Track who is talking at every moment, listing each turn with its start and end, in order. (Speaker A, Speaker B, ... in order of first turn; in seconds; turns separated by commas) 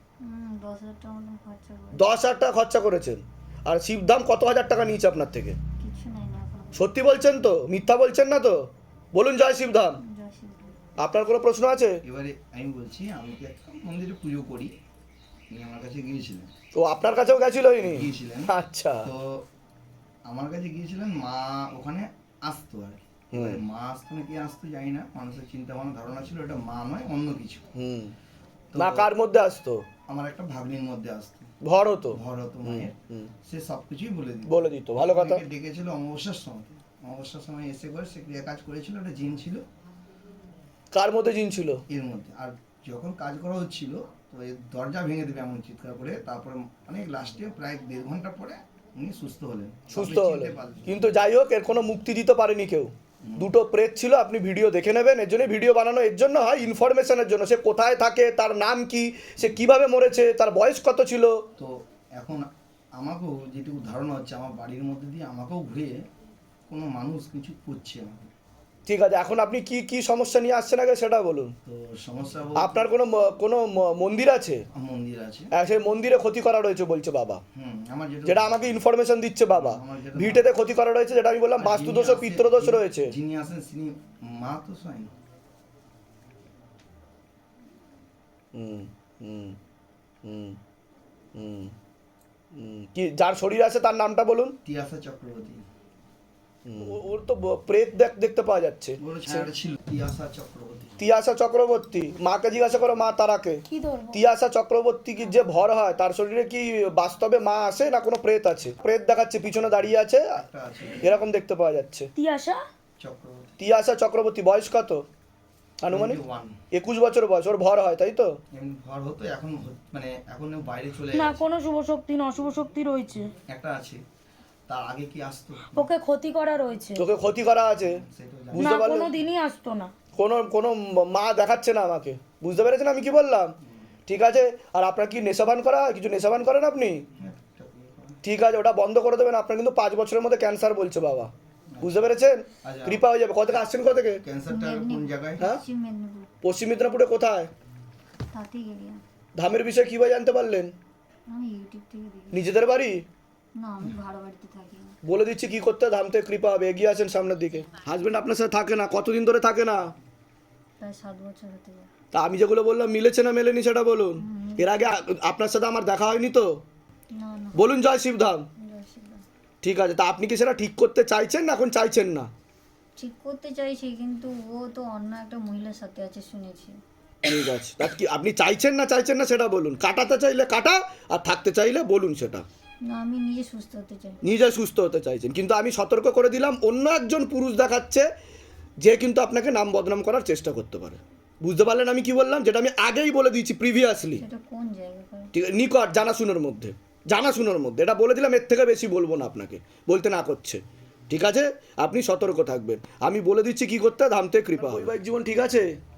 Speaker A: 0.2-2.1, Speaker B: 1.9-5.6, Speaker A: 5.8-7.0, Speaker B: 6.7-10.0, Speaker A: 10.0-10.8, Speaker B: 11.0-12.0, Speaker C: 12.0-14.8, Speaker C: 15.5-16.5, Speaker B: 16.8-19.1, Speaker C: 17.8-18.5, Speaker C: 19.0-19.5, Speaker C: 20.3-27.7, Speaker B: 23.3-23.6, Speaker B: 27.7-28.1, Speaker C: 28.7-29.1, Speaker B: 28.8-29.8, Speaker C: 30.1-31.5, Speaker B: 31.6-33.3, Speaker C: 32.1-39.6, Speaker B: 34.5-35.4, Speaker B: 40.9-41.8, Speaker C: 41.9-51.0, Speaker B: 49.9-61.5, Speaker C: 53.2-53.5, Speaker C: 61.6-66.1, Speaker C: 66.7-68.3, Speaker B: 68.9-71.5, Speaker C: 71.7-72.9, Speaker B: 72.6-74.6, Speaker C: 74.7-75.5, Speaker B: 75.5-77.4, Speaker C: 77.5-78.8, Speaker B: 78.2-83.1, Speaker C: 79.5-80.5, Speaker C: 81.6-85.1, Speaker B: 88.5-89.6, Speaker B: 90.2-90.6, Speaker B: 91.3-91.8, Speaker B: 92.5-94.6, Speaker C: 94.7-95.7, Speaker B: 96.7-99.5, Speaker C: 99.0-101.0, Speaker B: 101.0-110.4, Speaker D: 103.7-104.2, Speaker C: 110.3-111.2, Speaker B: 111.0-112.1, Speaker D: 112.2-112.6, Speaker C: 113.0-113.5, Speaker B: 113.6-115.1, Speaker B: 115.8-116.2, Speaker C: 115.9-116.6, Speaker B: 116.7-118.4, Speaker C: 118.5-121.5, Speaker D: 121.1-123.3, Speaker C: 123.5-124.0, Speaker C: 124.7-125.9, Speaker D: 125.7-127.0, Speaker B: 127.0-128.0, Speaker C: 127.8-128.9, Speaker B: 128.5-129.1, Speaker D: 128.6-129.9, Speaker B: 130.2-133.6, Speaker C: 133.6-133.9, Speaker B: 134.1-137.0, Speaker C: 137.2-138.2, Speaker B: 138.2-144.2, Speaker C: 141.7-143.1, Speaker C: 144.2-145.5, Speaker A: 144.5-146.3, Speaker B: 146.4-147.5, Speaker A: 148.3-149.0, Speaker B: 149.4-150.7, Speaker A: 151.3-152.5, Speaker B: 152.3-153.1, Speaker A: 153.6-155.0, Speaker B: 155.0-159.9, Speaker A: 160.8-161.9, Speaker B: 162.1-166.6, Speaker A: 164.2-164.8, Speaker A: 167.1-167.8, Speaker B: 167.6-168.5, Speaker A: 168.6-169.2, Speaker B: 169.6-172.3, Speaker A: 173.0-176.8, Speaker B: 177.2-182.4, Speaker A: 182.8-184.3, Speaker B: 184.2-188.1, Speaker B: 188.8-194.2, Speaker A: 194.2-195.3, Speaker B: 195.3-205.8